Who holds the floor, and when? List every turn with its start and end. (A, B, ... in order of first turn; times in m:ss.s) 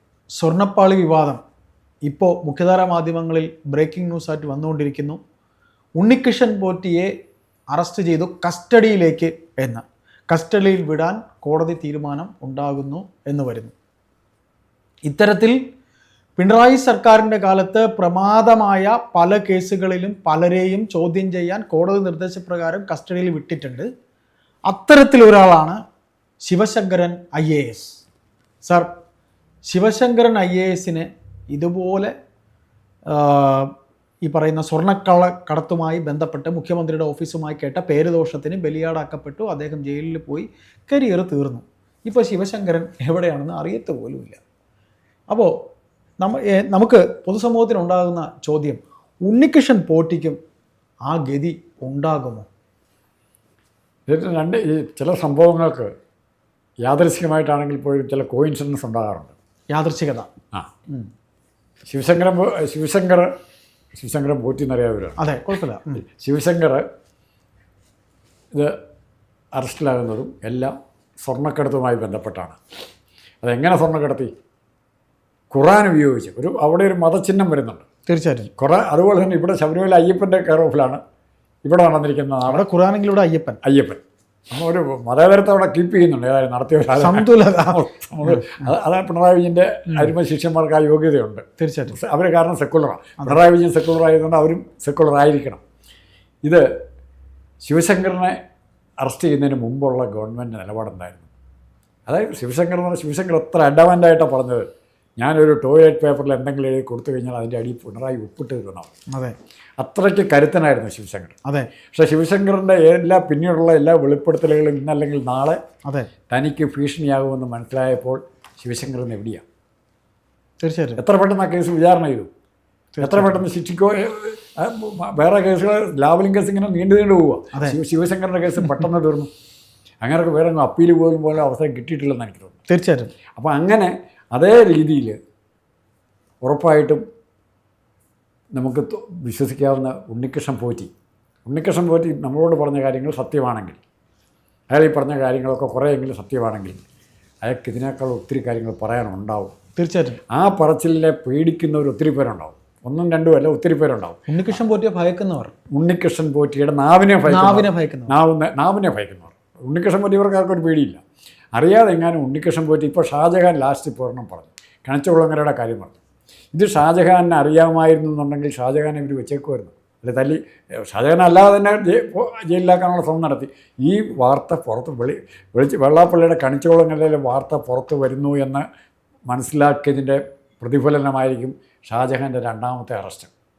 0:00.4-0:01.4 A
0:02.0-0:05.2 A
0:06.0-0:07.1 A
0:07.7-0:13.7 A
0:15.0-0:15.6 A
0:16.4-0:23.9 A
0:24.7-0:25.8 A
0:26.4-0:28.0 A
0:28.6-0:28.9 A
0:29.7-0:32.1 A
0:33.1-0:33.7 A
0:34.2-0:44.4 A
0:46.2-0:50.4 A
0:51.0-0:52.5 A
0:54.1-0:55.9 B
0:56.8-0:59.3 B
0:59.7-1:00.3 A
1:01.9-1:03.3 B
1:04.0-1:05.2 B
1:05.2-1:06.0 A
1:06.2-1:06.8 B
1:09.5-1:12.6 B
1:13.4-1:14.3 B
1:15.5-1:17.8 B
1:18.1-1:18.5 A
1:18.6-1:21.0 B
1:21.6-1:22.6 B
1:22.5-1:23.6 A
1:23.6-1:35.6 B
1:27.0-1:28.6 A
1:31.6-1:32.0 A
1:37.6-1:38.4 B
1:39.0-1:41.3 B
1:42.1-1:44.6 B
1:45.2-1:48.9 B
1:49.8-1:51.3 B
1:51.9-1:55.6 B
1:55.8-1:56.1 A
1:56.3-1:59.4 B
2:00.6-2:01.0 A
2:01.0-2:02.3 B
2:02.9-2:03.4 A
2:03.0-2:09.3 B
2:10.0-2:12.6 B
2:12.7-2:13.1 A
2:13.4-2:15.2 B
2:16.4-2:17.0 B
2:18.5-2:20.9 B
2:21.4-2:23.8 B
2:24.7-2:26.8 B
2:27.4-2:29.6 B
2:29.8-2:30.2 A
2:30.3-2:34.3 B
2:34.3-2:35.5 A
2:35.7-2:41.0 B
2:37.3-2:38.1 A
2:41.6-2:46.0 B
2:46.5-2:58.6 B
2:59.3-3:03.3 B